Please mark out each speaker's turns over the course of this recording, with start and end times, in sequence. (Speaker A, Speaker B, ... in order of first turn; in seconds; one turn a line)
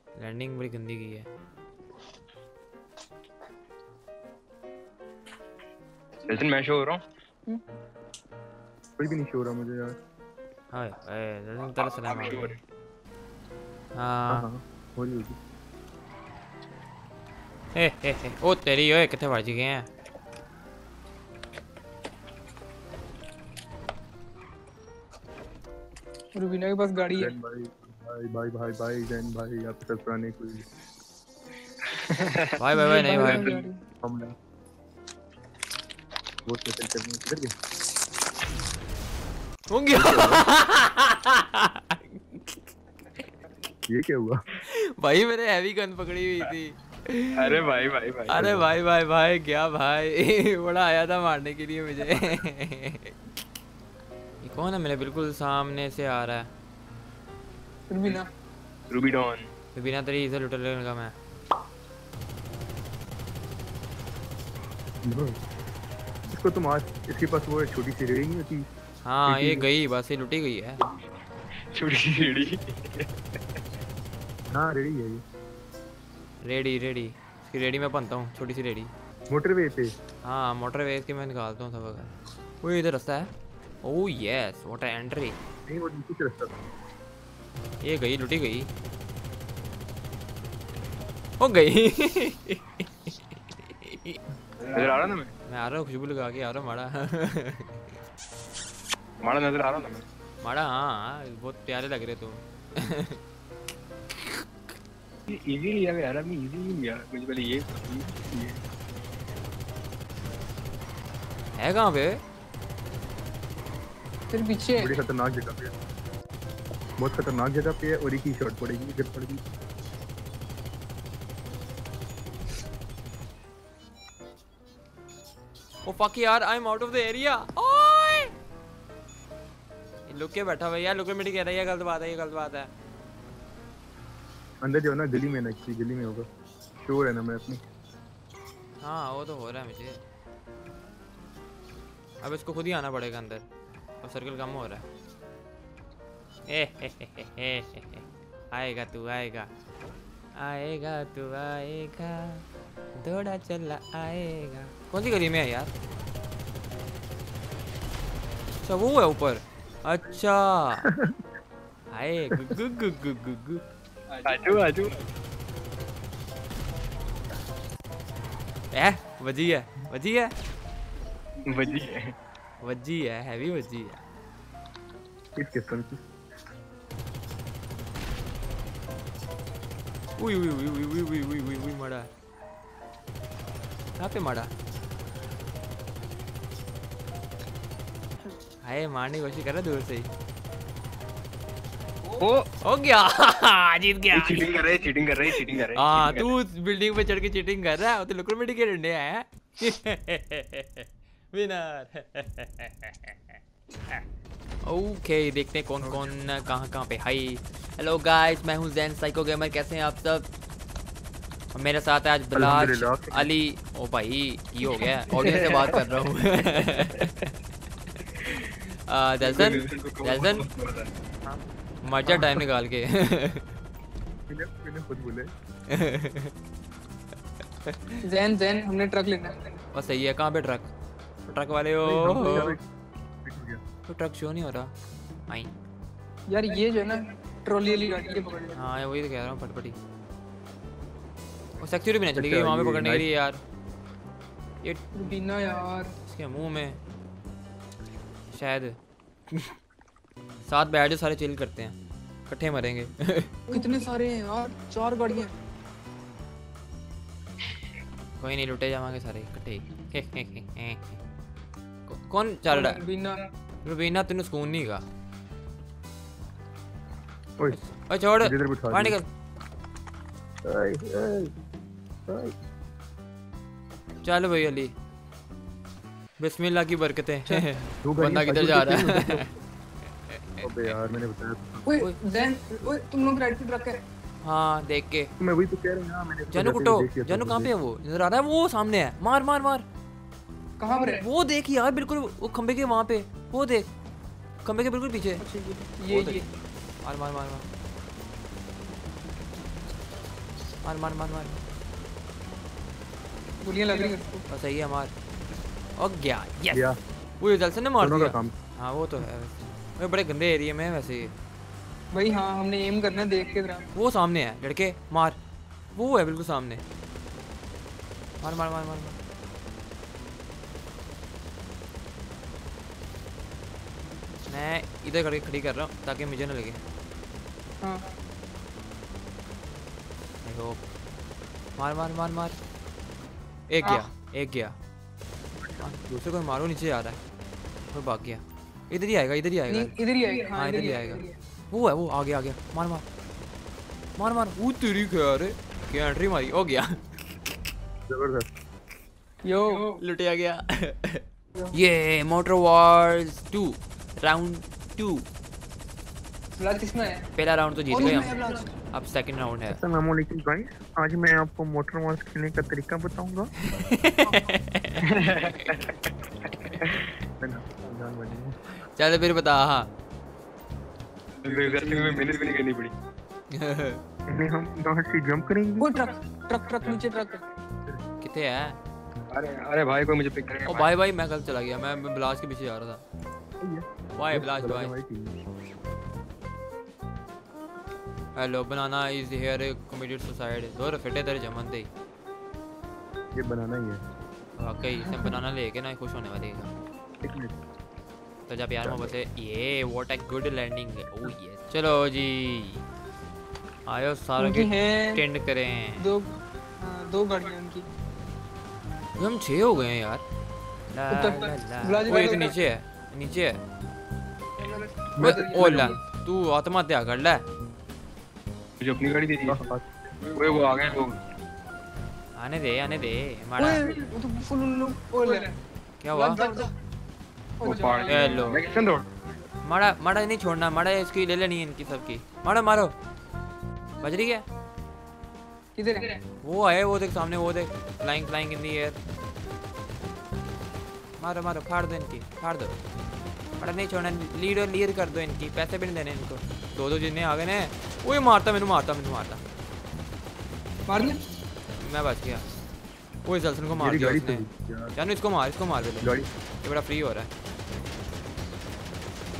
Speaker A: 0.1-1.3
Speaker B: 6.3-7.0
Speaker C: 9.0-9.9
Speaker A: 10.7-12.5
Speaker B: 11.7-12.6
Speaker A: 13.9-14.4
Speaker C: 14.3-15.4
Speaker A: 17.7-19.9
Speaker D: 26.3-27.3
Speaker C: 27.2-30.6
Speaker B: 32.0-33.5
Speaker A: 32.6-33.5
Speaker D: 32.7-33.7
Speaker C: 34.0-34.3
Speaker C: 36.5-37.5
Speaker A: 39.7-42.4
Speaker C: 39.9-40.4
Speaker C: 43.9-44.4
Speaker A: 44.6-47.6
Speaker B: 47.4-48.4
Speaker A: 48.3-53.1
Speaker C: 48.4-48.7
Speaker A: 54.4-56.5
Speaker D: 57.9-58.3
Speaker B: 58.9-59.5
Speaker A: 59.7-61.1
Speaker C: 65.0-65.4
Speaker C: 66.3-68.7
Speaker A: 69.0-70.8
Speaker C: 69.2-69.7
Speaker B: 71.7-73.1
Speaker C: 74.5-75.2
Speaker A: 76.4-78.9
Speaker C: 79.3-79.9
Speaker A: 80.2-83.3
Speaker A: 83.8-85.4
Speaker C: 85.7-86.5
Speaker A: 87.8-88.7
Speaker A: 91.4-94.2
Speaker B: 94.6-95.3
Speaker A: 95.5-97.7
Speaker B: 99.2-100.0
Speaker A: 100.4-103.2
Speaker B: 105.3-108.5
Speaker A: 111.5-112.2
Speaker D: 114.3-114.9
Speaker C: 114.8-115.7
Speaker C: 117.0-119.4
Speaker A: 125.8-128.3
Speaker A: 130.1-132.7
Speaker C: 134.6-136.2
Speaker C: 136.8-137.6
Speaker A: 138.8-140.0
Speaker A: 142.2-143.4
Speaker A: 144.0-144.8
Speaker A: 146.5-149.5
Speaker A: 150.3-152.4
Speaker A: 152.9-155.7
Speaker A: 158.6-160.9
Speaker C: 160.8-161.2
Speaker A: 161.9-163.6
Speaker B: 164.2-165.1
Speaker A: 168.7-170.3
Speaker B: 171.5-172.1
Speaker A: 172.6-174.0
Speaker C: 175.3-176.0
Speaker A: 180.2-182.1
Speaker A: 184.0-184.5
Speaker A: 188.6-190.1
Speaker B: 192.1-192.4
Speaker A: 192.6-194.6
Speaker B: 194.1-196.3
Speaker A: 195.3-203.2
Speaker A: 204.6-210.3
Speaker C: 205.8-206.1
Speaker A: 211.5-217.2
Speaker C: 212.3-213.3
Speaker C: 215.2-215.8
Speaker A: 218.0-220.4
Speaker B: 219.2-220.9
Speaker A: 221.3-223.5
Speaker C: 224.3-225.3
Speaker A: 225.7-226.3
Speaker A: 227.7-228.0
Speaker D: 228.0-229.4
Speaker A: 229.7-230.7
Speaker A: 231.3-232.6
Speaker C: 231.9-232.6
Speaker C: 233.2-233.6
Speaker A: 233.9-234.7
Speaker D: 236.3-238.6
Speaker A: 238.5-239.8
Speaker A: 241.6-243.4
Speaker C: 242.1-243.1
Speaker A: 244.6-245.2
Speaker D: 244.9-245.9
Speaker A: 246.0-246.8
Speaker A: 248.3-248.8
Speaker A: 250.4-253.6
Speaker D: 253.5-255.3
Speaker A: 258.2-260.9
Speaker A: 261.9-262.8
Speaker D: 262.5-263.2
Speaker A: 263.6-264.8
Speaker A: 267.5-269.1
Speaker C: 268.2-269.0
Speaker C: 270.4-271.3
Speaker C: 272.1-272.3
Speaker A: 274.0-274.7
Speaker A: 276.2-279.2
Speaker C: 277.8-279.3
Speaker A: 280.1-280.4
Speaker C: 280.4-281.7
Speaker D: 281.6-283.8
Speaker A: 284.2-285.1
Speaker C: 285.2-287.5
Speaker A: 286.3-289.6
Speaker D: 290.6-291.0
Speaker A: 290.8-293.7
Speaker A: 294.4-295.2
Speaker D: 295.2-296.3
Speaker A: 295.9-296.2
Speaker A: 296.8-297.5
Speaker A: 300.6-301.4
Speaker D: 303.4-304.2
Speaker A: 304.3-304.9
Speaker A: 305.8-306.6
Speaker C: 306.5-306.8
Speaker A: 307.2-311.1
Speaker C: 307.8-308.3
Speaker D: 311.9-313.7
Speaker A: 313.7-315.2
Speaker A: 315.7-316.6
Speaker A: 318.2-319.0
Speaker A: 324.3-326.6
Speaker D: 327.6-327.9
Speaker A: 330.2-330.6
Speaker A: 331.6-332.4
Speaker A: 333.5-334.6
Speaker C: 335.4-336.0
Speaker A: 335.6-337.0
Speaker A: 337.7-339.8
Speaker D: 339.5-341.1
Speaker A: 340.3-342.8
Speaker A: 344.0-346.8
Speaker C: 347.9-348.3
Speaker D: 349.2-349.7
Speaker A: 349.7-351.0
Speaker A: 351.5-355.1
Speaker D: 356.4-357.1
Speaker A: 357.2-359.6
Speaker D: 357.7-358.5
Speaker C: 359.5-363.3
Speaker A: 363.4-364.9
Speaker B: 364.8-365.8
Speaker C: 367.2-368.4
Speaker A: 368.7-369.7
Speaker B: 371.2-372.7
Speaker C: 371.3-372.1
Speaker A: 373.3-373.8
Speaker C: 374.1-375.8
Speaker D: 375.6-377.2
Speaker A: 378.0-378.6
Speaker B: 379.1-380.7
Speaker A: 380.4-382.8
Speaker C: 383.4-385.2
Speaker A: 383.9-384.7
Speaker A: 388.1-391.7
Speaker C: 393.1-393.8
Speaker A: 394.4-396.5
Speaker D: 394.9-395.1
Speaker C: 397.0-397.3
Speaker A: 398.3-402.6
Speaker C: 398.6-398.9
Speaker A: 403.7-405.9
Speaker D: 404.2-405.0
Speaker D: 405.8-407.7
Speaker A: 409.0-410.0
Speaker A: 410.7-413.4
Speaker D: 410.9-412.3
Speaker D: 414.4-415.8
Speaker C: 415.0-415.7
Speaker A: 415.0-417.2
Speaker B: 418.6-419.4
Speaker C: 419.3-420.1
Speaker B: 420.1-421.0
Speaker A: 422.1-423.8
Speaker D: 423.4-425.4
Speaker A: 425.8-426.2
Speaker D: 425.9-426.5
Speaker D: 427.4-428.4
Speaker B: 427.4-428.9
Speaker A: 427.9-428.4
Speaker A: 429.4-432.7
Speaker A: 433.8-434.2
Speaker D: 435.5-436.0
Speaker A: 436.2-438.8
Speaker A: 441.0-442.6
Speaker A: 443.4-449.2
Speaker D: 450.7-451.0
Speaker A: 451.6-452.2
Speaker A: 453.0-454.2
Speaker C: 453.5-454.7
Speaker A: 454.8-457.1
Speaker C: 455.8-456.1